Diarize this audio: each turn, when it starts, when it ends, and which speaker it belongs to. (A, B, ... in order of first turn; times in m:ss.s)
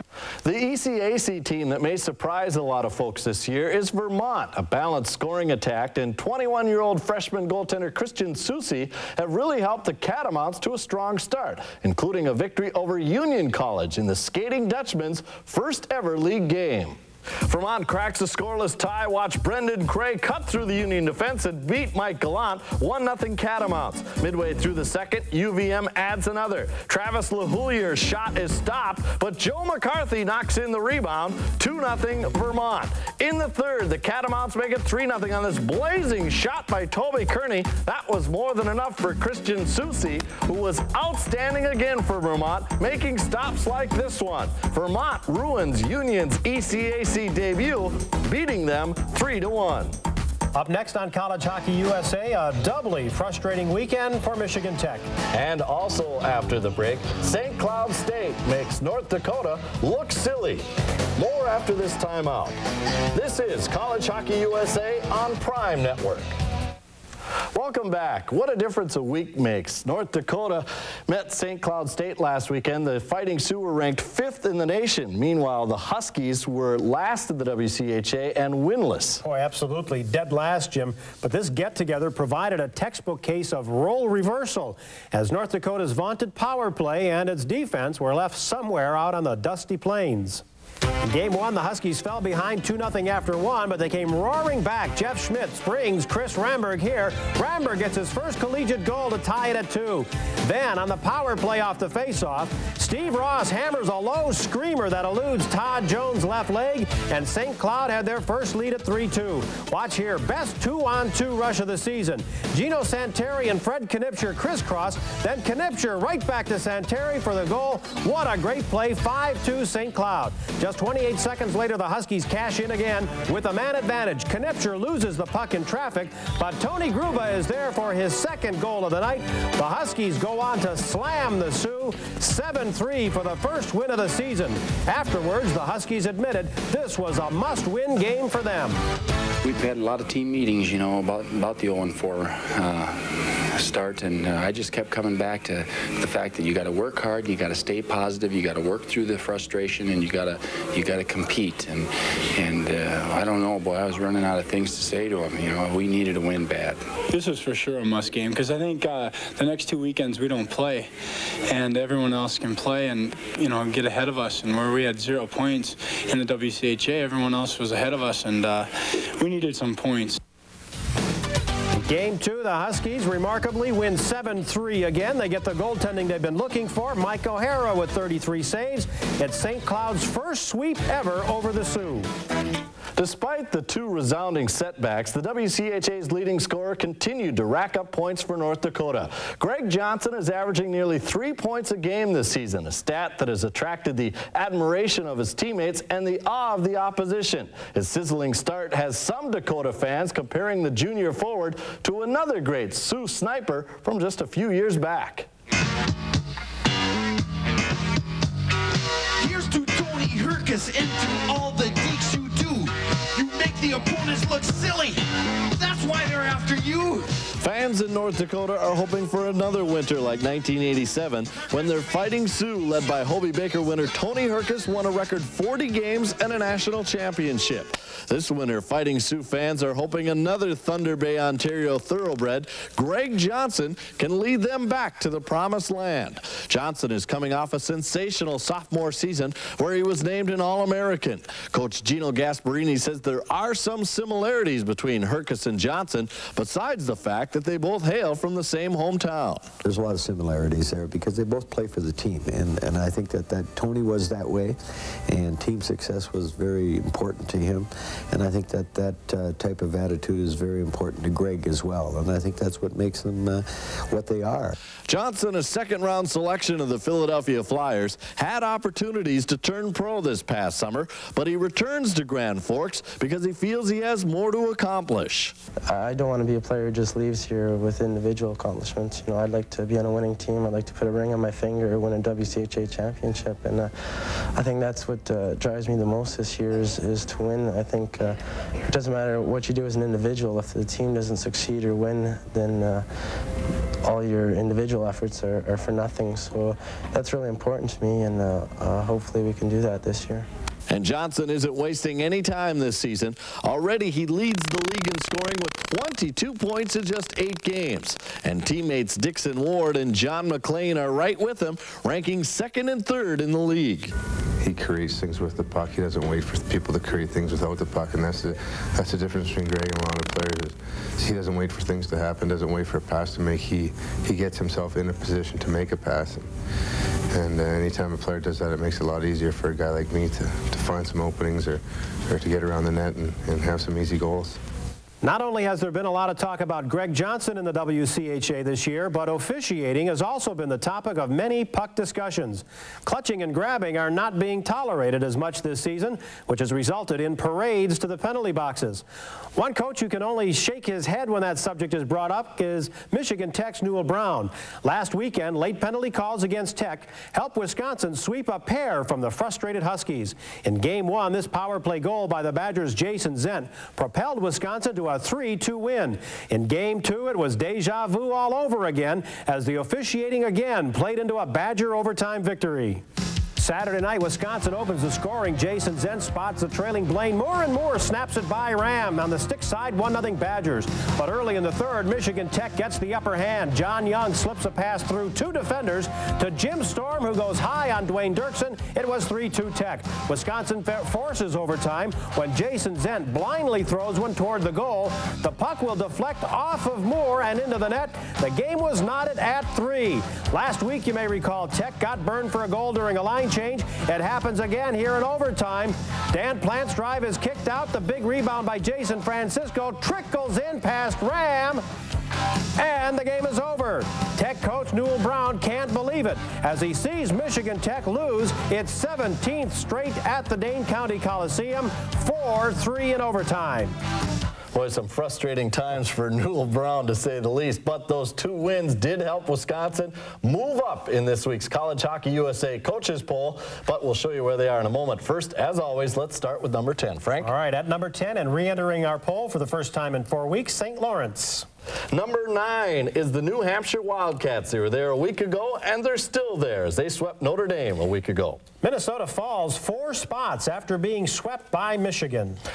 0:00.4-0:49.9 A
0:50.6-0:55.1 B
0:55.3-1:02.6 A
1:03.1-1:06.4 A
1:07.5-1:19.2 A
1:19.2-1:30.4 B
1:31.0-2:18.8 B
2:19.4-2:36.8 C
2:37.1-2:40.9 D
2:41.5-2:50.2 D
2:51.7-3:02.1 B
3:03.0-3:25.3 A
3:29.2-3:35.0 E
3:35.5-3:37.1 E
3:37.4-4:09.5 A
4:09.6-4:24.6 F
4:24.9-4:35.4 A
4:35.7-4:52.9 G
4:53.8-5:00.3 G
5:00.7-5:13.9 A
5:14.4-5:26.3 H
5:27.1-5:34.4 H
5:35.0-5:48.8 B
5:49.4-6:12.8 B
6:13.4-6:51.6 B
6:52.6-7:03.8 B
7:04.5-7:17.3 A
7:17.2-7:21.5 B
7:21.9-7:28.4 A
7:28.6-7:32.4 B